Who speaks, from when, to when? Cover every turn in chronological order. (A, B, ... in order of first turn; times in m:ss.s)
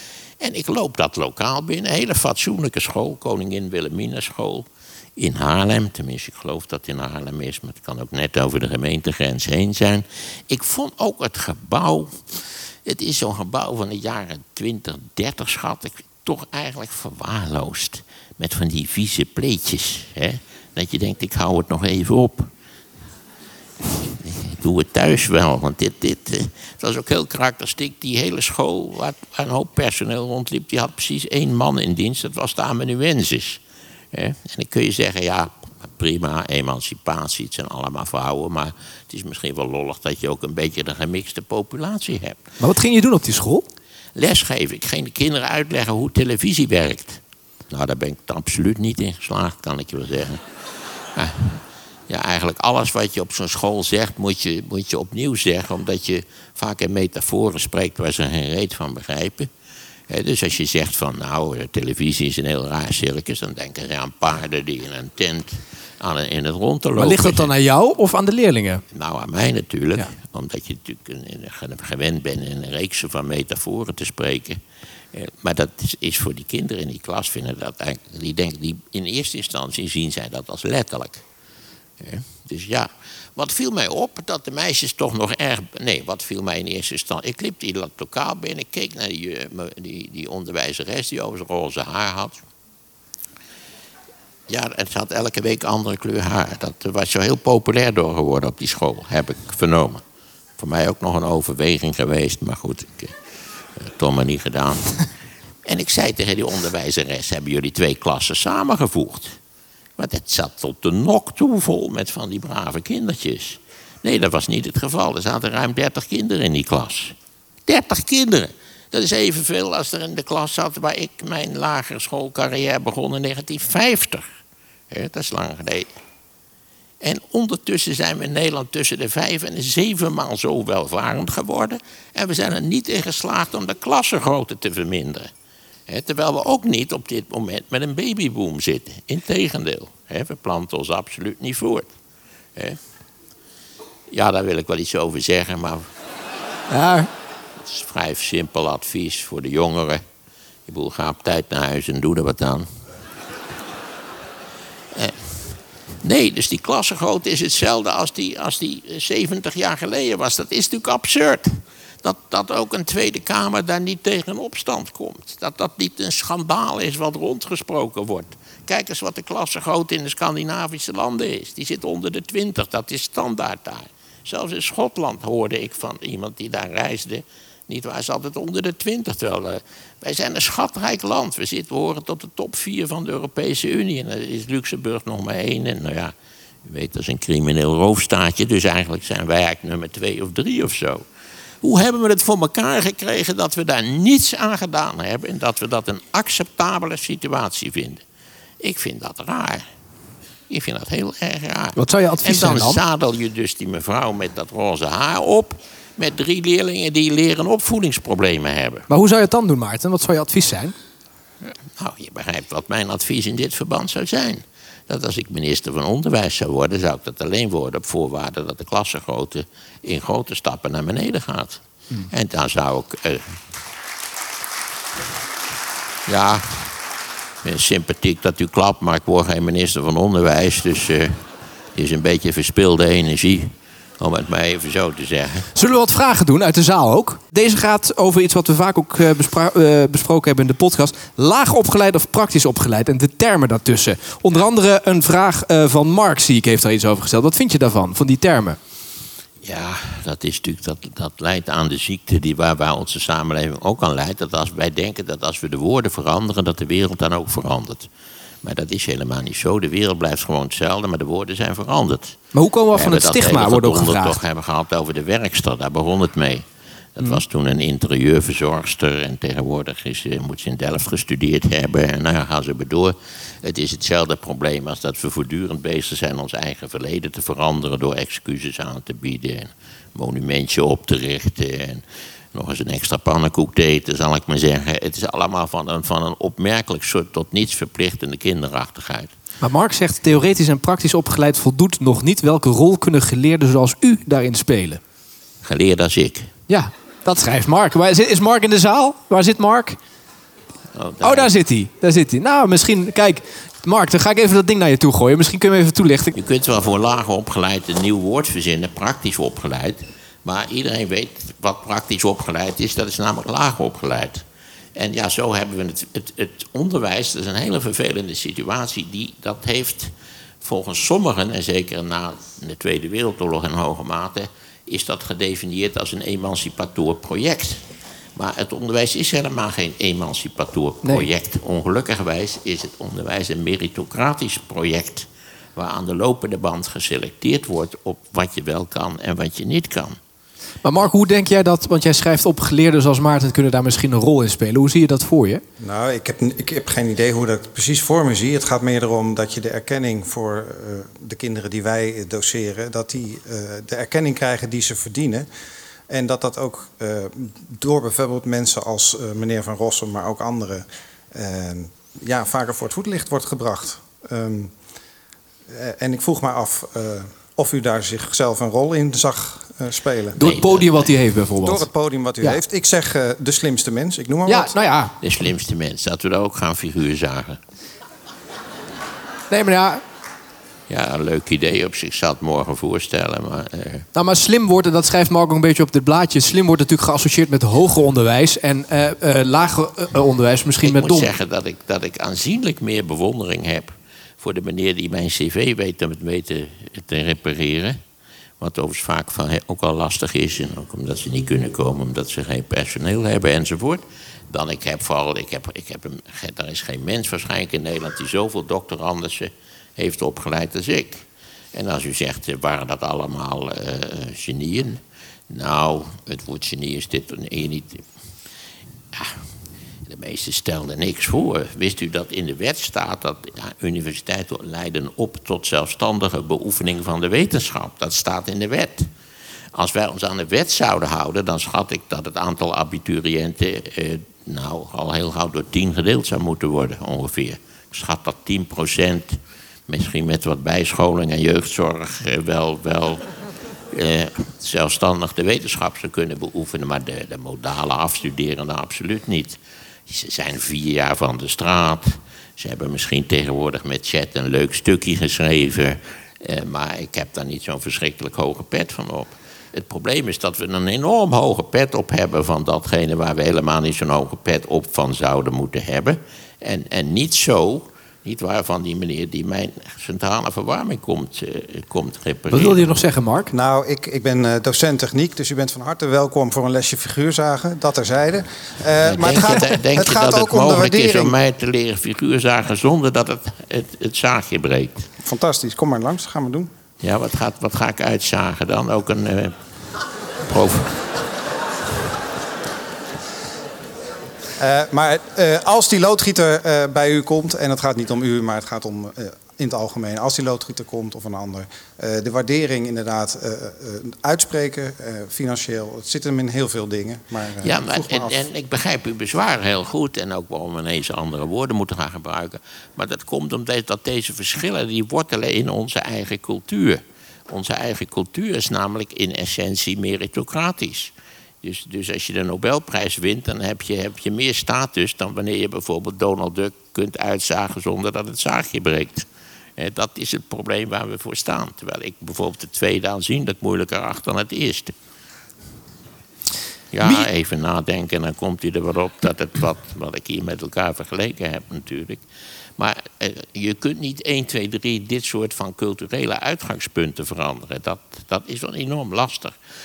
0:00.4-0:12.2 A
0:12.8-0:22.5 A
0:24.0-0:33.6 A
0:34.1-0:42.4 A
0:42.6-0:43.6 B
0:44.2-0:50.4 A
0:51.1-0:59.5 A
1:00.1-1:07.5 A
1:07.0-1:08.8 B
1:08.9-1:14.6 A
1:15.1-1:21.2 A
1:22.0-1:32.4 A
1:34.5-1:40.0 A
1:40.6-1:43.1 A
1:43.8-1:45.0 A
1:45.6-1:49.4 A
1:50.0-1:57.1 A
1:57.7-2:04.3 A
2:04.9-2:05.9 A
2:07.0-2:15.3 A
2:15.9-2:21.9 A
2:24.1-2:25.9 A
2:26.7-2:27.1 B
2:27.6-2:30.0 A
2:30.7-2:32.7 A
2:34.9-3:06.1 A
3:06.6-3:11.0 A
3:11.6-3:18.0 A
3:18.6-3:19.6 A
3:20.5-3:28.9 A
3:21.8-3:22.8 B
3:28.9-3:30.7 B
3:31.4-3:43.4 A
3:46.1-3:46.8 A
3:47.4-3:51.2 A
3:51.7-3:55.5 A
3:55.5-4:08.6 B
4:09.4-4:17.9 A
4:18.4-4:22.2 A
4:22.3-4:24.2 B
4:22.7-4:26.4 A
4:27.0-4:49.1 A
4:49.4-4:54.8 B
4:55.4-4:56.3 A
4:56.5-4:59.8 B
5:00.7-5:01.3 A
5:01.0-5:06.1 B
5:06.1-5:14.2 A
5:14.8-5:19.9 A
5:20.4-5:27.6 A
5:28.2-5:40.0 A
5:40.6-5:45.4 B
5:45.6-5:55.3 C
5:55.9-6:04.5 C
6:05.5-6:10.2 C
6:10.2-6:11.7 B
6:10.2-6:10.9 A
6:11.4-6:14.6 C
6:14.3-6:14.9 B
6:15.0-6:17.4 A
6:19.3-6:19.8 B
6:20.7-6:23.8 A
6:23.9-6:31.1 B
6:30.6-6:37.8 A
6:38.4-6:57.8 A
6:58.9-6:59.2 A
6:59.8-7:08.9 A
7:09.5-7:23.0 A
7:23.7-7:52.6 A
7:52.3-7:53.3 B
7:53.3-8:01.2 C
7:58.8-8:04.9 A
8:05.0-8:06.5 C
8:06.8-8:09.3 A
8:10.2-8:10.8 A
8:14.4-8:28.2 C
8:27.4-8:49.0 A
8:49.6-8:54.7 A
8:56.7-9:02.0 A
9:02.6-9:09.4 A